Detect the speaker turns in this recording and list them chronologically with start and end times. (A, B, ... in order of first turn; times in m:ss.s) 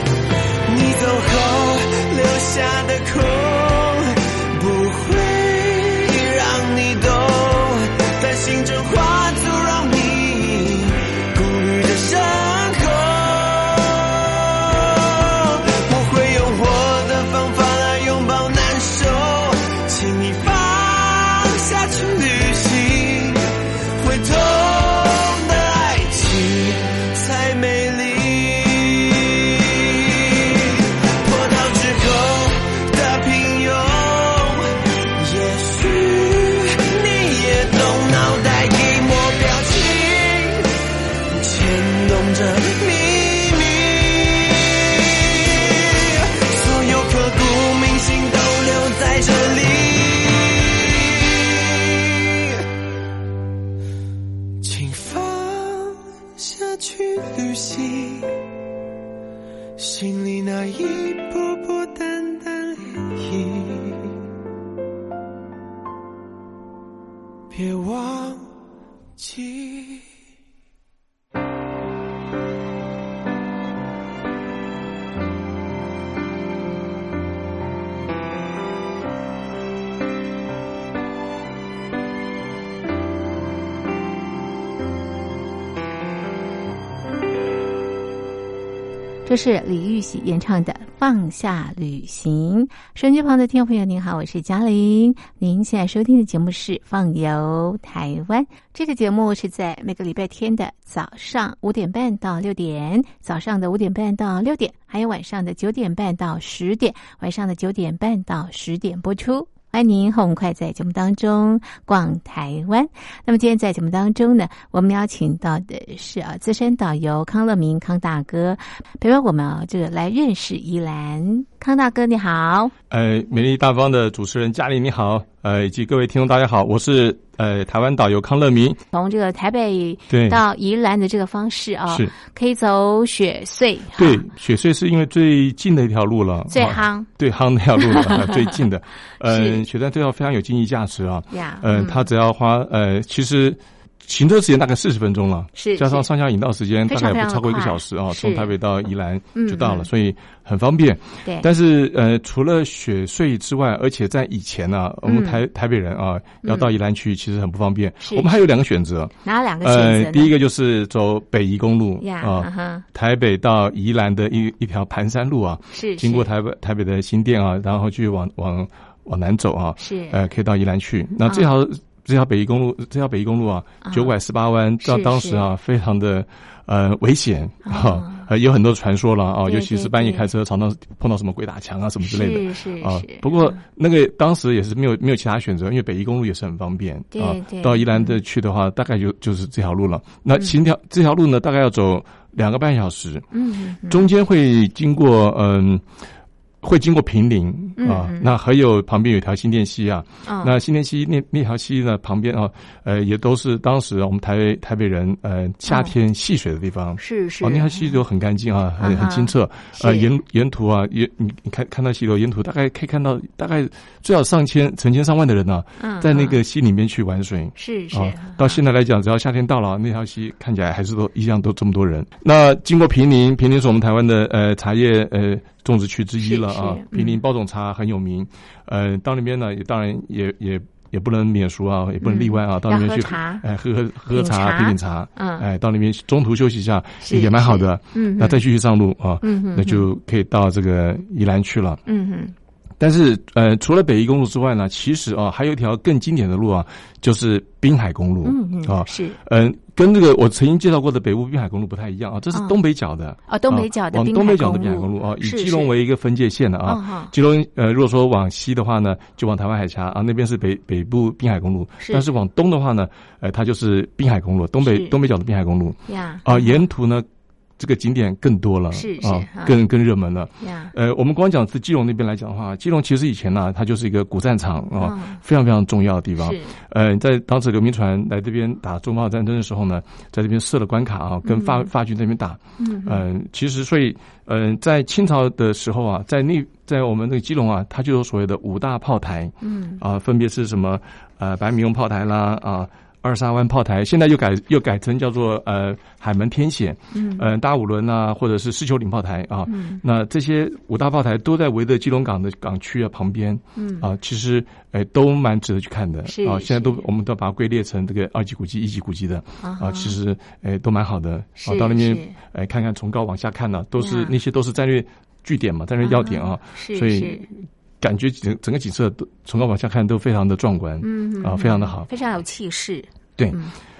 0:00.6-0:40.7 A
0:41.3-0:52.4 A
0:54.6-0:58.3 A
0:59.8-1:04.1 A
1:07.5-1:08.5 A
1:09.2-1:10.1 A
1:29.2-2:02.7 B
2:02.9-2:08.8 C
2:08.9-2:14.3 B
2:10.1-2:10.4 C
2:11.9-2:12.1 C
2:14.0-3:13.3 C
2:16.5-2:17.1 B
2:17.8-2:18.5 B
2:19.2-2:19.6 B
2:21.3-2:22.1 B
2:25.6-2:26.1 B
2:26.9-2:28.5 B
2:29.3-2:29.9 B
2:35.0-2:35.4 B
2:36.4-2:36.7 B
2:38.0-2:38.3 B
2:39.2-2:40.3 B
2:42.0-2:42.8 B
2:45.7-2:46.3 B
2:49.8-2:50.2 B
2:51.2-2:51.5 B
2:53.8-2:54.1 B
2:54.8-2:55.5 B
2:57.6-2:58.2 B
2:59.4-3:00.3 B
3:02.0-3:03.6 B
3:07.1-3:08.2 B
3:13.3-3:14.1 B
3:13.9-3:15.8 C
3:16.6-4:01.8 C
3:17.8-3:18.3 B
3:20.2-3:20.6 B
3:25.7-3:25.9 B
3:27.0-3:28.0 B
3:28.8-3:30.1 B
3:35.8-3:36.4 B
3:37.6-3:38.6 B
3:46.2-3:47.2 B
3:52.0-3:53.4 B
3:54.1-3:55.4 B
3:57.0-3:58.4 B
3:59.2-3:59.8 B
4:01.8-4:02.3 B
4:02.8-4:27.0 C
4:08.2-4:09.2 B
4:13.3-4:15.7 B
4:16.6-4:17.1 B
4:24.6-4:24.9 B
4:25.9-4:26.6 B
4:27.6-5:21.9 C
4:28.7-4:29.6 B
4:30.4-4:30.7 B
4:34.8-4:35.2 B
4:36.2-4:36.5 B
4:41.2-4:41.7 B
4:42.6-4:43.0 B
4:49.4-4:49.8 B
4:56.9-4:57.3 B
4:59.5-4:59.8 B
5:03.6-5:03.8 B
5:06.0-5:06.8 B
5:09.4-5:10.0 B
5:11.4-5:12.1 B
5:13.8-5:14.1 B
5:15.8-5:17.2 B
5:20.8-5:23.5 B